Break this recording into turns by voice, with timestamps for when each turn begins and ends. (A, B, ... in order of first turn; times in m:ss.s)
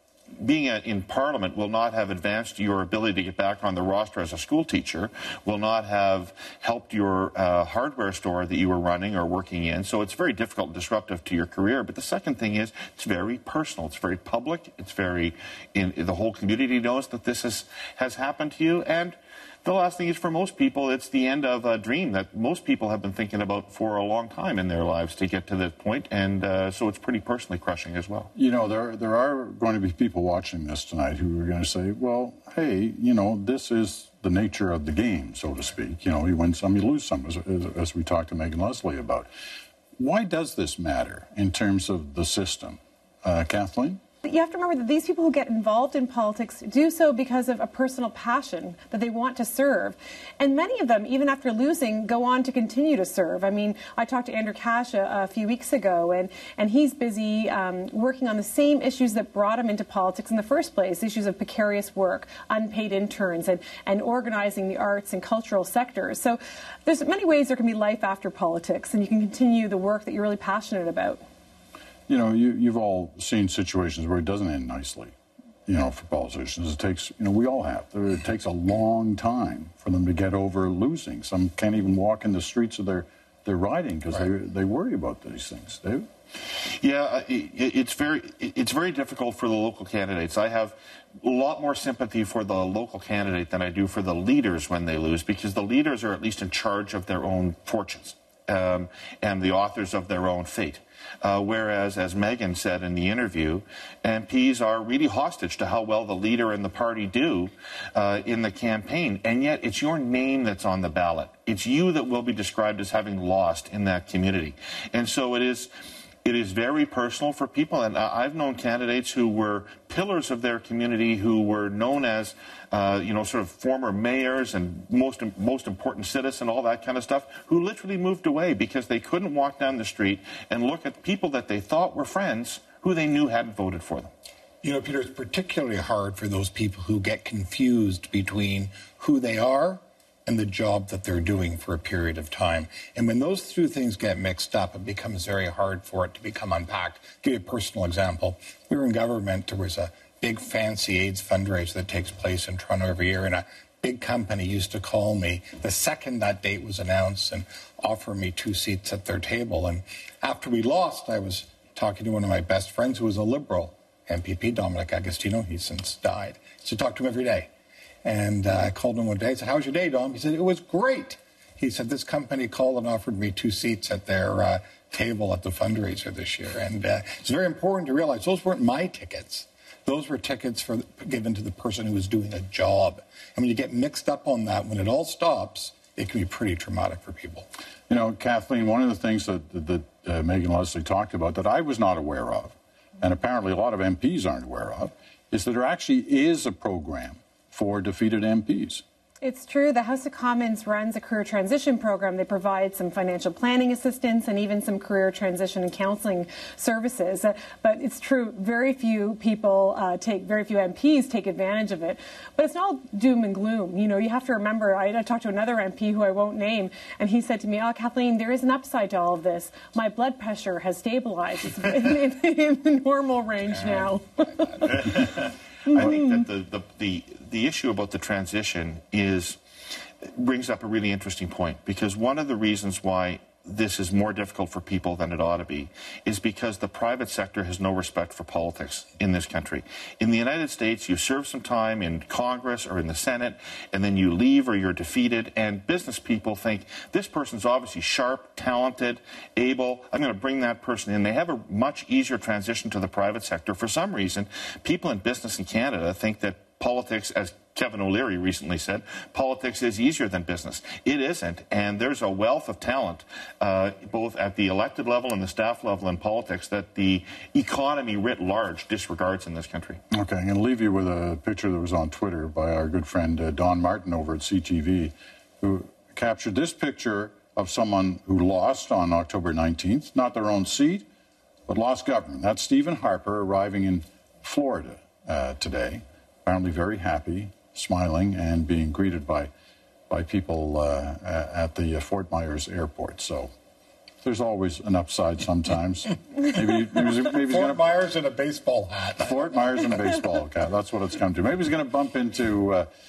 0:00.4-0:28.3 A
0:28.3-0:39.3 B
0:40.0-0:44.0 B
0:44.2-1:11.2 C
1:12.1-1:15.1 B
1:15.7-1:26.1 B
1:26.7-1:55.7 A
1:56.2-2:14.1 A
2:14.6-2:47.5 D
2:48.0-3:07.5 D
3:07.9-3:18.8 B
3:19.2-3:44.9 C
3:44.7-3:49.4 A
3:45.6-3:46.2 C
3:50.0-4:29.8 A
4:29.9-4:40.9 B
4:41.5-4:49.3 B
4:49.9-4:53.3 B
4:54.0-4:57.6 B
4:57.2-4:59.2 D
4:59.0-5:02.7 B